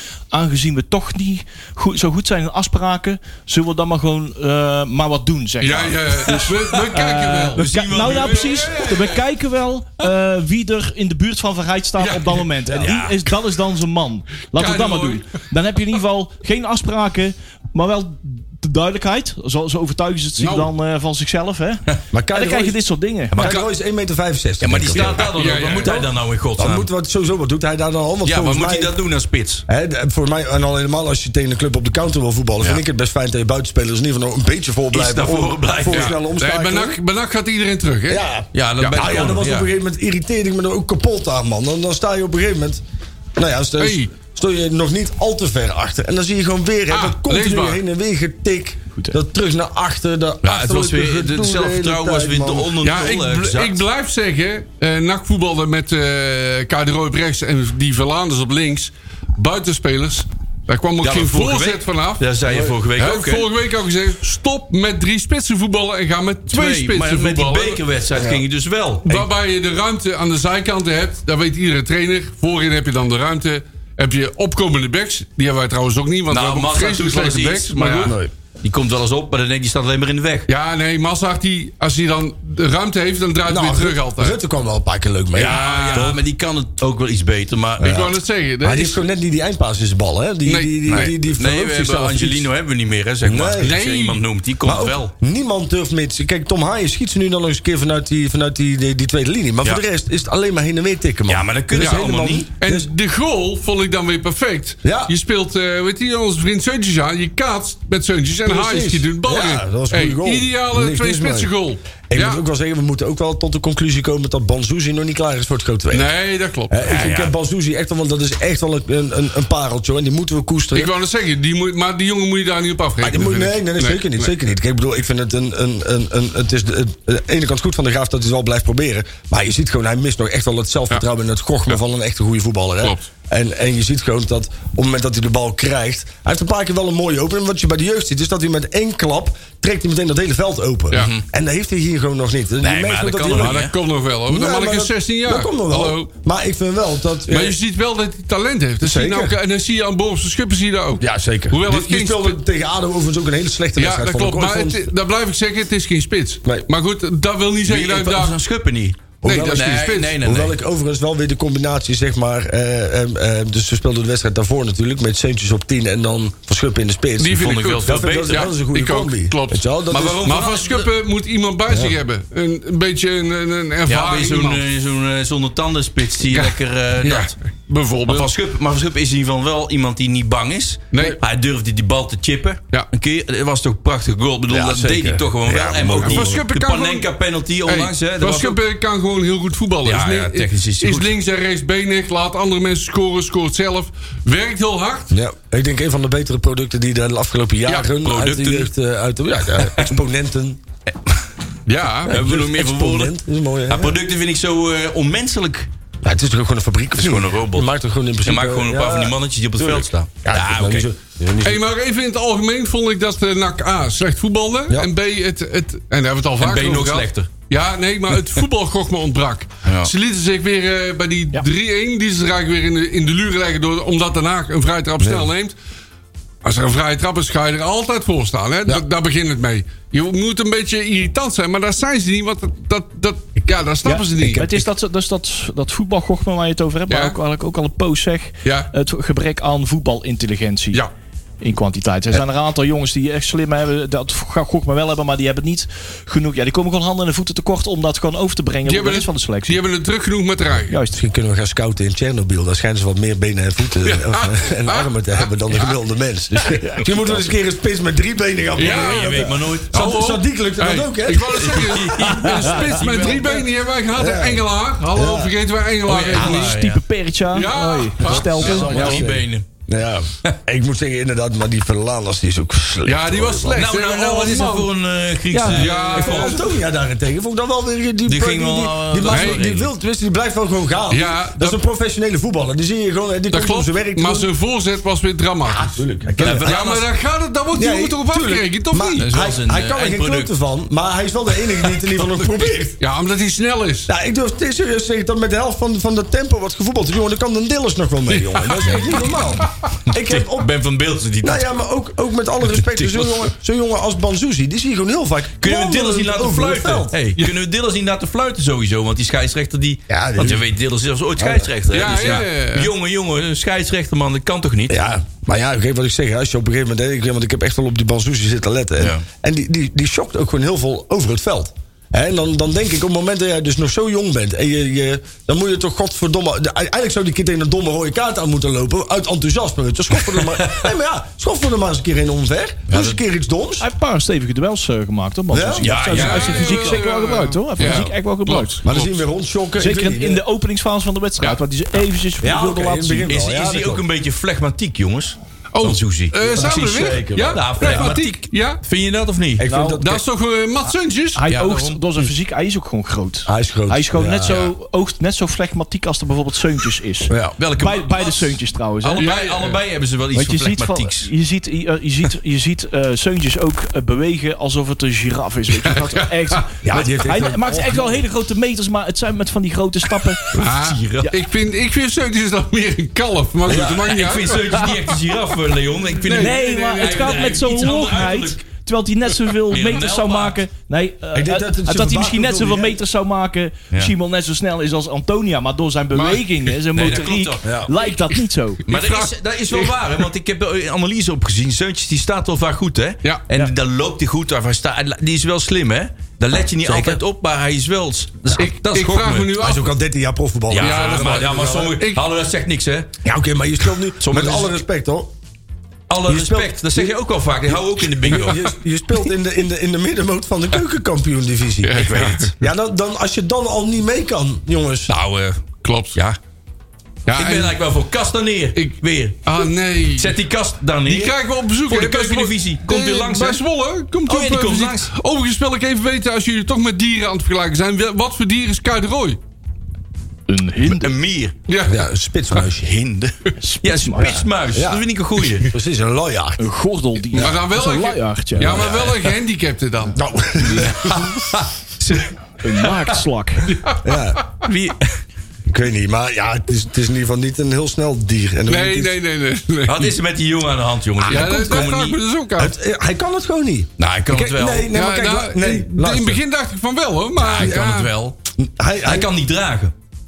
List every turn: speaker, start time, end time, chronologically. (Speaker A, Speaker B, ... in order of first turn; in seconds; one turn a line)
Speaker A: 0.3-23.4
Speaker B: 5.6-9.3
Speaker C: 6.3-6.6
Speaker C: 7.5-8.8
Speaker B: 12.0-12.4
Speaker C: 12.7-13.3
Speaker B: 14.5-15.2
Speaker B: 20.4-20.7
Speaker D: 22.1-22.8
Speaker C: 23.3-23.6
Speaker D: 23.4-29.0
Speaker C: 24.6-26.9
Speaker B: 24.9-26.1
Speaker C: 28.2-29.6
Speaker D: 29.7-37.0
Speaker C: 34.9-36.2
Speaker B: 35.9-38.2
Speaker D: 38.1-42.8
Speaker C: 38.5-39.7
Speaker B: 38.8-39.1
Speaker D: 43.4-52.7
Speaker B: 43.8-44.1
Speaker B: 46.9-47.8
Speaker C: 50.4-53.8
Speaker B: 52.8-62.2
Speaker C: 61.0-63.5
Speaker D: 62.5-62.8
Speaker B: 62.9-67.8
Speaker C: 66.5-69.3
Speaker D: 68.2-68.4
Speaker B: 69.0-78.2
Speaker C: 76.3-80.5
Speaker D: 78.0-78.3
Speaker B: 80.5-84.4
Speaker D: 83.5-86.0
Speaker C: 85.3-88.0
Speaker B: 85.4-86.2
Speaker D: 87.8-92.5
Speaker B: 87.8-89.0
Speaker B: 90.5-91.1
Speaker C: 90.9-95.1
Speaker D: 93.2-93.8
Speaker B: 93.6-94.2
Speaker D: 94.6-102.9
Speaker C: 101.3-102.5
Speaker B: 101.8-102.1
Speaker B: 102.6-112.4
Speaker D: 104.8-105.1
Speaker D: 108.5-111.5
Speaker D: 112.1-116.1
Speaker B: 115.9-117.2
Speaker D: 116.7-120.9
Speaker C: 116.9-117.3
Speaker B: 120.8-124.3
Speaker D: 123.0-143.6
Speaker B: 132.8-133.1
Speaker C: 140.9-141.2
Speaker C: 142.6-143.7
Speaker B: 143.3-146.1
Speaker D: 144.3-147.6
Speaker B: 147.3-152.4
Speaker D: 148.8-149.4
Speaker D: 151.0-154.9
Speaker B: 153.8-158.4
Speaker C: 157.7-160.6
Speaker D: 159.2-170.3
Speaker B: 159.2-160.2
Speaker B: 167.2-174.6
Speaker C: 167.2-168.5
Speaker C: 169.9-170.9
Speaker D: 171.7-172.0
Speaker C: 173.9-177.3
Speaker B: 176.2-178.3
Speaker C: 178.1-188.6
Speaker B: 180.9-181.2
Speaker D: 184.5-186.4
Speaker B: 185.9-187.1
Speaker B: 187.6-195.1
Speaker C: 189.8-191.1
Speaker D: 195.1-200.6
Speaker C: 198.0-198.7
Speaker C: 199.6-200.0
Speaker B: 201.7-202.2
Speaker D: 202.1-204.0
Speaker C: 202.1-203.1
Speaker C: 203.7-205.7
Speaker D: 206.0-211.6
Speaker C: 207.0-207.7
Speaker C: 208.2-210.9
Speaker B: 211.4-225.5
Speaker C: 216.4-217.3
Speaker C: 219.7-219.9
Speaker D: 225.0-225.3
Speaker B: 226.4-234.4
Speaker D: 233.8-234.7
Speaker A: 234.4-240.8
Speaker B: 236.9-237.2
Speaker B: 238.4-238.7
Speaker A: 241.4-249.6
Speaker B: 248.7-250.8
Speaker A: 250.7-251.0
Speaker D: 250.9-262.9
Speaker B: 253.8-255.8
Speaker B: 258.6-266.6
Speaker C: 258.6-260.0
Speaker C: 261.6-263.4
Speaker D: 263.9-265.4
Speaker C: 265.9-266.8
Speaker A: 266.1-269.1
Speaker B: 267.3-269.0
Speaker C: 268.1-269.5
Speaker D: 268.5-273.7
Speaker B: 272.9-274.7
Speaker C: 273.5-276.4
Speaker A: 275.3-275.7
Speaker B: 275.4-276.5
Speaker D: 275.9-284.3
Speaker C: 278.1-279.7
Speaker B: 279.1-279.5
Speaker B: 280.9-281.6
Speaker B: 283.3-289.1
Speaker D: 285.5-286.6
Speaker C: 286.2-286.9
Speaker D: 287.5-292.8
Speaker C: 289.0-290.3
Speaker B: 292.8-293.9
Speaker D: 293.9-300.5
Speaker B: 298.1-299.7
Speaker C: 299.9-301.5
Speaker D: 301.2-307.0
Speaker C: 302.5-303.3
Speaker C: 305.4-314.8
Speaker D: 309.9-310.5
Speaker D: 311.2-312.2
Speaker B: 311.7-312.7
Speaker D: 314.7-333.7
Speaker C: 318.8-319.0
Speaker C: 330.1-330.7
Speaker C: 332.7-333.0
Speaker A: 333.6-338.6
Speaker D: 335.3-335.7
Speaker C: 335.6-336.8
Speaker B: 335.8-339.0
Speaker D: 338.6-340.2
Speaker A: 339.6-343.1
Speaker D: 342.2-343.8
Speaker C: 343.1-349.5
Speaker B: 345.5-348.6
Speaker D: 346.2-348.0
Speaker D: 349.4-350.0
Speaker A: 349.5-349.8
Speaker B: 349.8-351.2
Speaker A: 351.1-359.1
Speaker C: 351.3-352.0
Speaker D: 353.3-354.4
Speaker D: 357.1-357.4
Speaker C: 357.4-361.1
Speaker B: 359.0-359.6
Speaker A: 360.1-370.3
Speaker B: 365.6-366.4
Speaker D: 366.6-368.0
Speaker B: 370.3-374.8
Speaker C: 370.4-371.1
Speaker D: 373.5-373.9
Speaker C: 373.5-378.4
Speaker B: 376.0-377.5
Speaker A: 376.1-388.6
Speaker C: 379.4-380.4
Speaker D: 381.1-382.8
Speaker C: 386.7-387.5
Speaker D: 387.4-387.7
Speaker B: 388.7-390.1
Speaker C: 388.7-399.5
Speaker D: 396.6-397.0
Speaker B: 398.4-399.8
Speaker D: 399.4-401.8
Speaker C: 400.5-402.9
Speaker B: 400.6-402.0
Speaker D: 403.0-405.1
Speaker C: 404.0-404.6
Speaker C: 405.9-408.5
Speaker D: 406.0-414.9
Speaker B: 408.1-408.4
Speaker B: 411.6-412.4
Speaker C: 411.8-412.3
Speaker C: 414.9-415.4
Speaker B: 415.6-416.0
Speaker B: 417.1-417.6
Speaker C: 417.1-421.1
Speaker B: 418.6-420.2
Speaker B: 420.9-429.2
Speaker C: 421.7-423.4
Speaker C: 424.1-424.9
Speaker A: 430.3-430.9
Speaker C: 430.6-431.4
Speaker B: 431.5-432.5
Speaker D: 431.7-432.7
Speaker C: 432.5-435.5
Speaker A: 433.4-434.3
Speaker D: 434.5-434.8
Speaker D: 435.4-436.4
Speaker A: 436.4-438.7
Speaker B: 437.1-440.0
Speaker C: 438.4-439.0
Speaker D: 439.9-441.2
Speaker C: 440.4-442.7
Speaker A: 442.4-443.6
Speaker B: 443.5-443.9
Speaker D: 443.8-444.2
Speaker C: 444.4-444.9
Speaker D: 445.5-449.0
Speaker B: 448.5-450.0
Speaker C: 449.7-452.0
Speaker D: 451.0-451.8
Speaker B: 451.1-452.5
Speaker D: 452.4-456.2
Speaker C: 453.8-454.7
Speaker B: 454.7-457.9
Speaker C: 457.2-458.1
Speaker D: 458.4-459.1
Speaker C: 458.8-459.7